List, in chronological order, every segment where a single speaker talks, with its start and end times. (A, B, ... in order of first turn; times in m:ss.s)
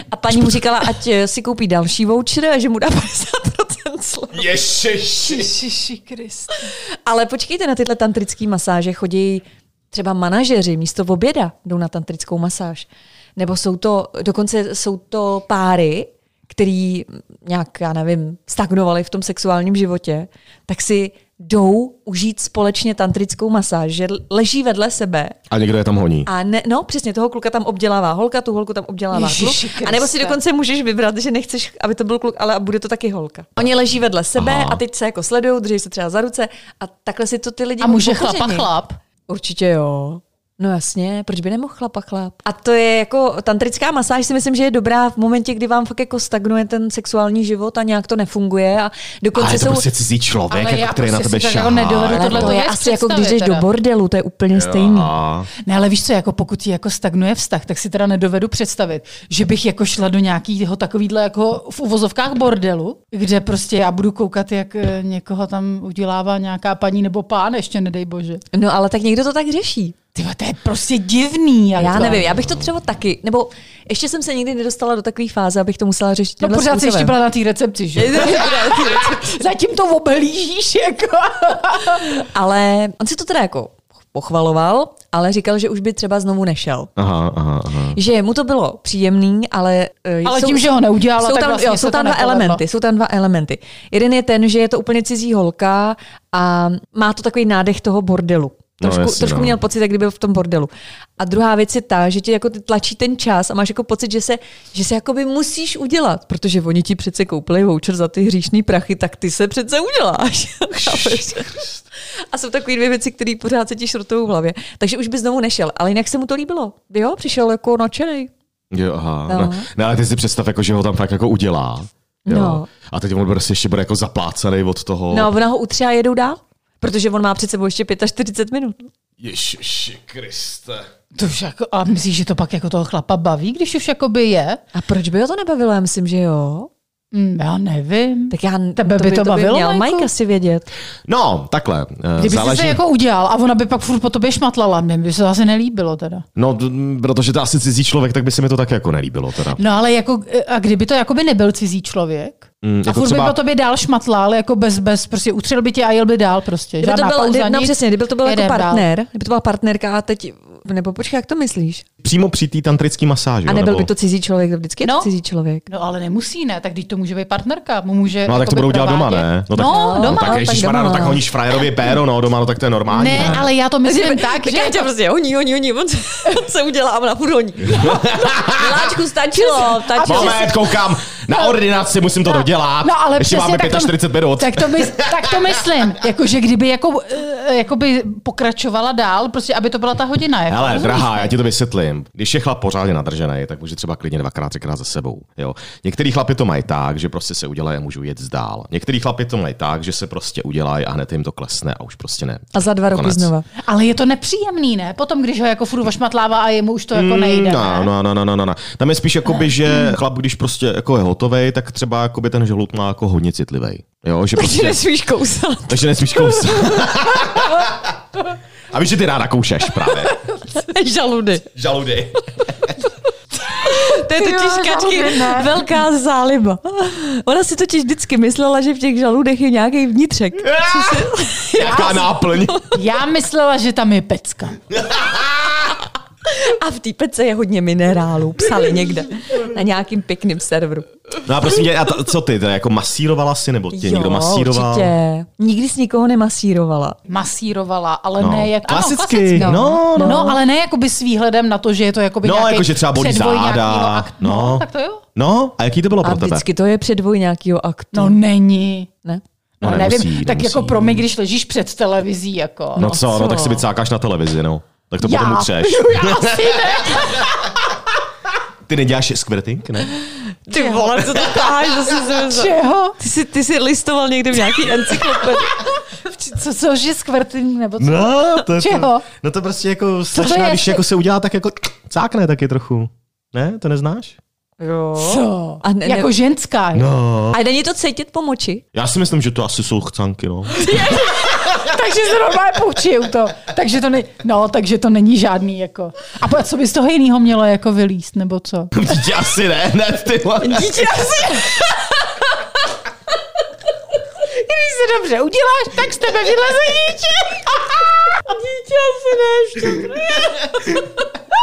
0:00.1-0:04.6 A
0:04.3-0:05.5 B
0:05.3-0:06.6 C
0:06.6-0:25.4 A
0:25.5-0:26.3 B
0:26.3-0:38.7 A
0:29.1-0:30.4 C
0:34.4-0:34.8 B
0:37.8-0:39.0 C
0:39.3-0:49.9 A
0:49.4-0:52.6 B
0:50.5-0:53.6 C
0:52.1-0:55.1 A
0:54.5-0:55.5 B
0:55.6-1:08.4 C
1:08.5-1:10.0 A
1:10.1-1:12.3 C
1:11.8-1:12.5 B
1:11.8-1:17.2 A
1:16.4-1:22.2 C
1:18.0-1:19.3 A
1:22.1-1:26.9 A
1:27.0-1:28.0 B
1:28.0-1:51.6 A
1:30.2-1:32.6 C
1:38.8-1:39.6 B
1:50.8-1:51.8 B
1:52.3-1:58.3 A
1:58.7-2:05.3 B
1:59.3-1:59.7 A
2:02.2-2:02.7 A
2:05.1-2:08.9 A
2:09.2-2:10.9 B
2:11.1-2:14.6 C
2:14.8-2:16.7 A
2:17.1-2:20.1 C
2:18.3-2:20.7 A
2:21.1-2:22.8 B
2:22.2-2:26.2 C
2:26.4-2:29.6 B
2:29.6-2:38.9 C
2:32.6-2:33.4 B
2:36.8-2:41.8 A
2:42.0-2:43.9 B
2:43.5-2:45.6 A
2:44.8-2:45.1 C
2:45.7-2:50.4 C
2:48.2-2:53.5 B
2:49.6-2:51.2 A
2:52.9-2:54.9 C
2:53.8-3:00.5 A
2:57.7-2:58.9 B
2:59.4-3:00.6 C
3:00.0-3:05.6 B
3:01.1-3:01.6 C
3:02.2-3:11.3 C
3:10.5-3:23.3 B
3:22.5-3:23.5 A
3:23.6-3:27.9 C
3:26.9-3:34.8 B
3:34.4-3:36.7 A
3:35.7-3:38.0 B
3:38.7-3:40.2 B
3:40.5-3:41.5 A
3:41.6-3:42.8 B
3:43.5-3:52.8 A
3:43.5-3:45.7 C
3:50.4-3:52.6 B
3:51.6-3:52.1 C
3:52.7-3:54.6 C
3:54.8-3:55.7 B
3:56.2-4:00.9 A
4:01.2-4:04.9 B
4:03.7-4:07.0 A
4:07.1-4:15.0 C
4:08.2-4:10.3 B
4:09.4-4:10.4 A
4:12.2-4:16.4 B
4:16.0-4:18.2 A
4:17.9-4:18.9 C
4:19.6-4:23.2 C
4:19.6-4:21.0 B
4:22.8-4:27.3 B
4:22.8-4:23.6 A
4:25.0-4:27.6 C
4:28.7-4:29.9 B
4:30.0-4:35.8 A
4:30.5-4:33.0 C
4:35.9-4:39.0 C
4:37.8-4:44.2 B
4:40.1-4:40.8 C
4:44.6-4:46.1 A
4:45.0-4:46.9 C
4:46.7-4:47.4 B
4:47.3-4:48.6 A
4:48.7-4:50.8 B
4:50.5-4:58.7 C
4:58.7-5:00.8 B
5:00.4-5:01.7 A
5:00.8-5:01.8 C
5:04.2-5:10.8 C
5:09.2-5:09.9 A